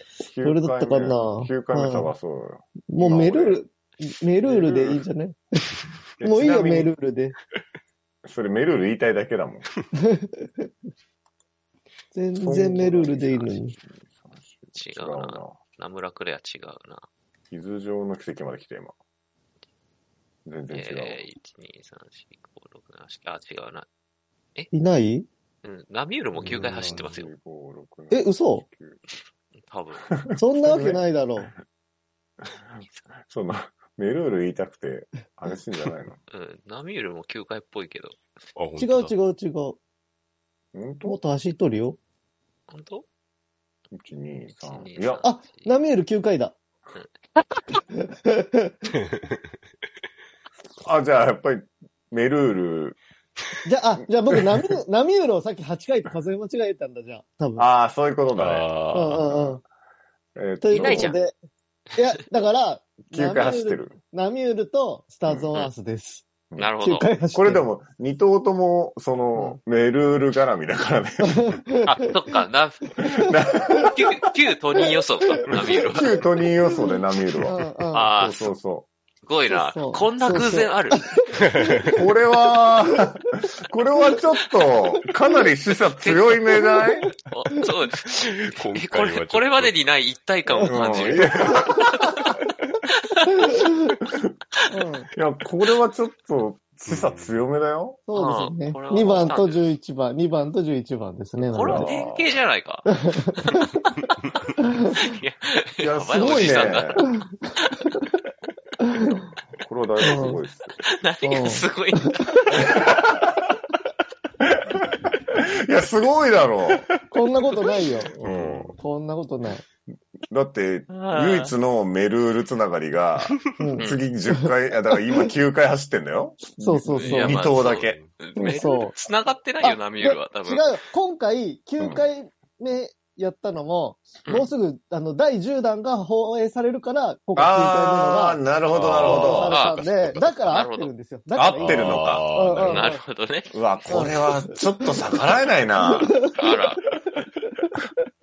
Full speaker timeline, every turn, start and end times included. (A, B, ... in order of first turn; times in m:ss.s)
0:00.2-0:03.6 A
0:00.4-0:02.1 B
0:02.9-0:07.4 B
0:04.4-0:05.0 A
0:06.2-0:06.9 A
0:08.2-0:09.7 A
0:10.0-0:10.7 B
0:12.1-0:13.7 B
0:12.3-0:15.6 A
0:14.7-0:17.1 C
0:17.5-0:18.9 A
0:20.4-0:21.2 A
0:20.7-0:23.8 C
0:24.7-0:25.2 B
0:25.6-0:27.3 C
0:26.4-0:29.0 A
0:26.4-0:27.1 D
0:28.1-0:28.6 B
0:29.6-0:30.1 C
0:30.1-0:31.4 A
0:30.4-0:31.5 B
0:33.2-0:36.2 A
0:36.3-0:38.2 C
0:38.6-0:39.1 D
0:38.8-0:39.8 B
0:40.7-0:41.2 A
0:41.0-0:42.0 B
0:42.7-0:43.0 C
0:43.9-0:45.2 A
0:44.6-0:45.7 C
0:45.2-0:46.5 B
0:46.9-0:47.6 C
0:47.9-0:48.7 B
0:50.8-0:53.0 A
0:53.6-0:57.7 B
0:57.6-0:59.6 A
0:58.3-0:59.3 D
0:58.9-0:59.6 B
1:00.4-1:01.2 A
1:00.6-1:01.3 B
1:00.7-1:01.2 C
1:01.9-1:06.2 B
1:03.1-1:04.0 A
1:06.6-1:07.1 C
1:06.8-1:07.7 B
1:07.3-1:11.6 A
1:09.3-1:09.6 B
1:11.3-1:11.9 B
1:11.8-1:13.0 C
1:13.0-1:14.1 A
1:13.9-1:16.2 C
1:14.8-1:15.2 B
1:15.6-1:18.9 A
1:17.4-1:18.1 B
1:17.9-1:18.5 C
1:19.2-1:21.1 C
1:19.5-1:21.1 B
1:21.4-1:21.9 D
1:21.9-1:27.1 A
1:26.0-1:26.6 C
1:27.3-1:28.1 C
1:28.1-1:29.8 D
1:28.7-1:32.3 C
1:30.6-1:32.1 A
1:33.2-1:33.5 C
1:34.7-1:35.1 B
1:35.2-1:38.0 A
1:36.9-1:37.4 D
1:38.1-1:41.9 B
1:38.1-1:39.7 C
1:41.5-1:43.7 C
1:41.6-1:42.3 A
1:42.8-1:43.6 B
1:44.9-1:47.0 C
1:45.8-1:47.1 A
1:49.6-1:50.8 A
1:50.0-1:50.4 B
1:50.9-1:52.7 C
1:51.2-1:52.0 B
1:52.5-1:53.3 A
1:54.5-1:54.9 A
1:55.6-1:56.9 A
1:57.1-1:58.1 B
1:58.1-1:58.8 D
1:58.1-1:58.8 A
1:58.7-1:59.6 B
2:00.3-2:08.0 A
2:00.9-2:01.5 C
2:03.6-2:04.5 B
2:03.8-2:04.0 C
2:06.4-2:07.4 B
2:06.9-2:10.7 C
2:07.5-2:08.1 D
2:08.4-2:09.0 B
2:09.6-2:18.4 B
2:11.8-2:12.0 A
2:14.2-2:14.5 C
2:17.4-2:19.6 A
2:18.7-2:20.4 D
2:19.0-2:23.0 B
2:19.4-2:19.8 C
2:20.5-2:20.9 C
2:21.3-2:22.3 A
2:21.5-2:22.9 D
2:22.6-2:23.5 C
2:23.5-2:26.2 A
2:23.9-2:25.2 B
2:25.8-2:26.5 B
2:26.4-2:26.8 C